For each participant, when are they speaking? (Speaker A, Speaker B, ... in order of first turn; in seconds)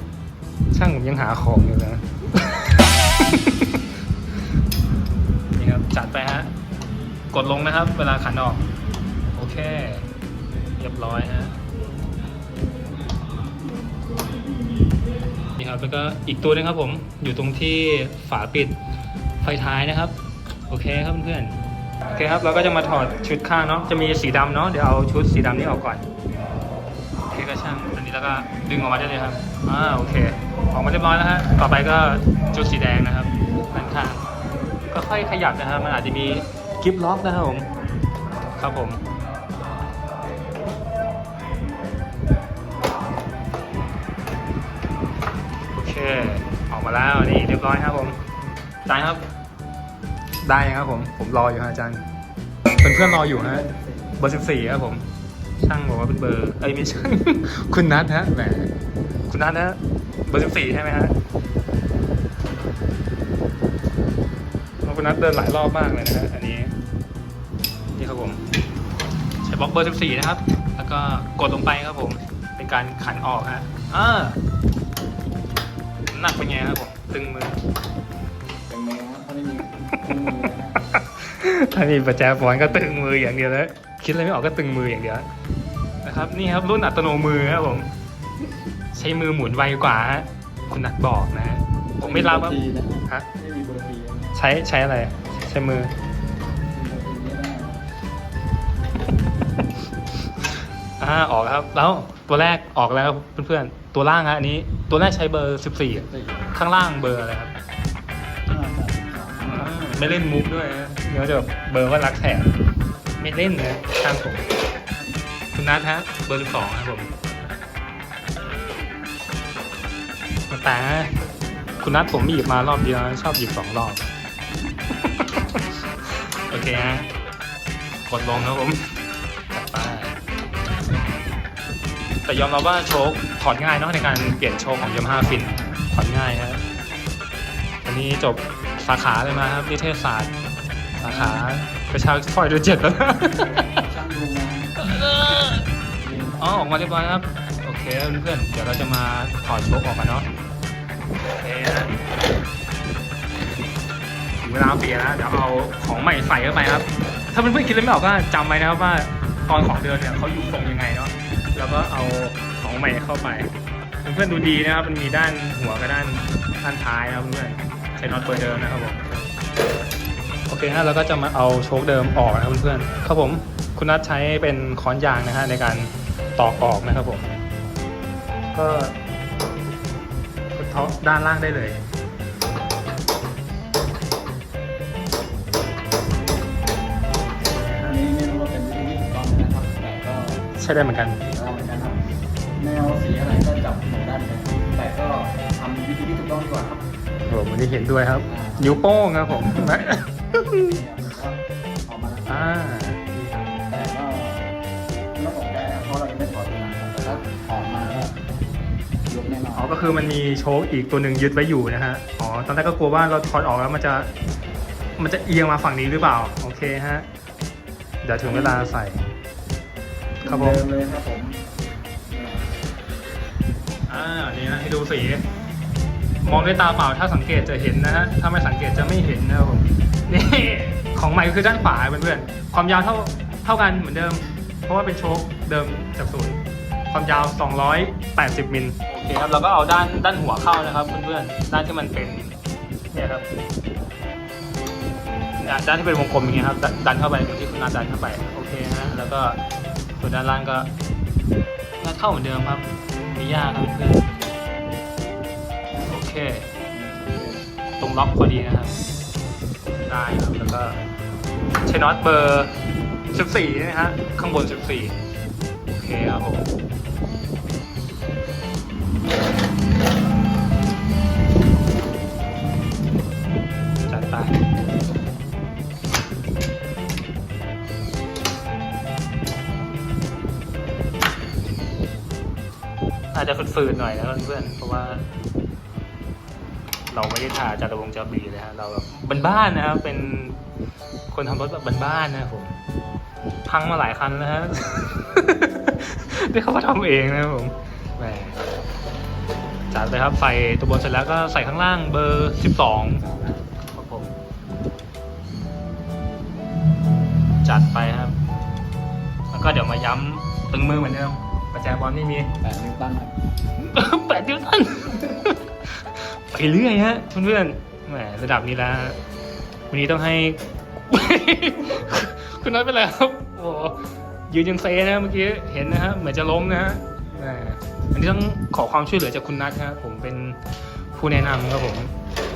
Speaker A: 0.7-3.8, 5.5-6.5, 7.3-8.7, 9.3-10.1, 10.8-11.6, 15.6-18.8, 19.4-20.1, 20.7-26.0, 27.3-34.2, 34.9-37.7, 38.5-39.0, 45.7-48.2, 48.9-49.2, 50.4-52.0, 52.7-53.7, 54.2-55.0, 55.6-58.7, 59.3-61.1, 64.8-66.7, 67.9-68.4, 69.4-74.4, 76.1-77.6, 80.4-85.2, 86.0-87.9, 88.9-93.3, 94.3-95.9, 101.0-107.5, 109.5-112.5, 113.2-114.5, 115.5-117.1, 120.5-121.1, 121.8-124.1, 125.0-125.6, 126.5-127.1, 128.1-128.8, 129.5-130.2, 132.2-136.6, 137.8-140.3, 141.0-143.8, 144.8-145.7, 146.4-150.3, 151.4-151.9, 154.4-163.5, 164.0-169.0, 170.5-177.3, 178.5-178.9, 180.5-181.8, 187.4-187.9, 190.5-191.2, 197.3-200.8, 202.3-203.4, 209.5-214.1, 215.0-217.1, 218.0-219.0, 220.2-220.6, 223.9-225.3, 226.2-236.4, 236.9-242.3, 242.9-243.3, 245.4-249.4, 250.0-250.7, 251.8-254.1, 255.8-256.5, 257.8-258.8, 259.8-260.8, 261.6-262.5, 263.1-265.0, 265.7-266.5, 273.9-274.4, 283.1-285.1, 286.9-290.4, 291.1-292.5, 293.4-298.4, 299.7-303.0, 303.7-304.1, 307.4-308.1, 309.3-312.4, 313.6-319.0, 319.7-330.4, 330.9-331.9
Speaker B: 53.1-54.4, 78.7-80.8, 92.0-94.3, 96.7-97.8, 106.1-106.5, 108.5-109.7, 141.0-141.5, 143.6-144.8, 146.0-146.5, 187.8-190.4, 191.3-196.8, 198.3-198.8, 199.4-199.9, 200.6-202.5, 203.7-204.5, 205.2-208.2, 209.1-209.9, 218.3-218.6, 220.2-221.4, 222.1-222.5, 256.7-257.4, 303.0-303.4, 312.4-313.1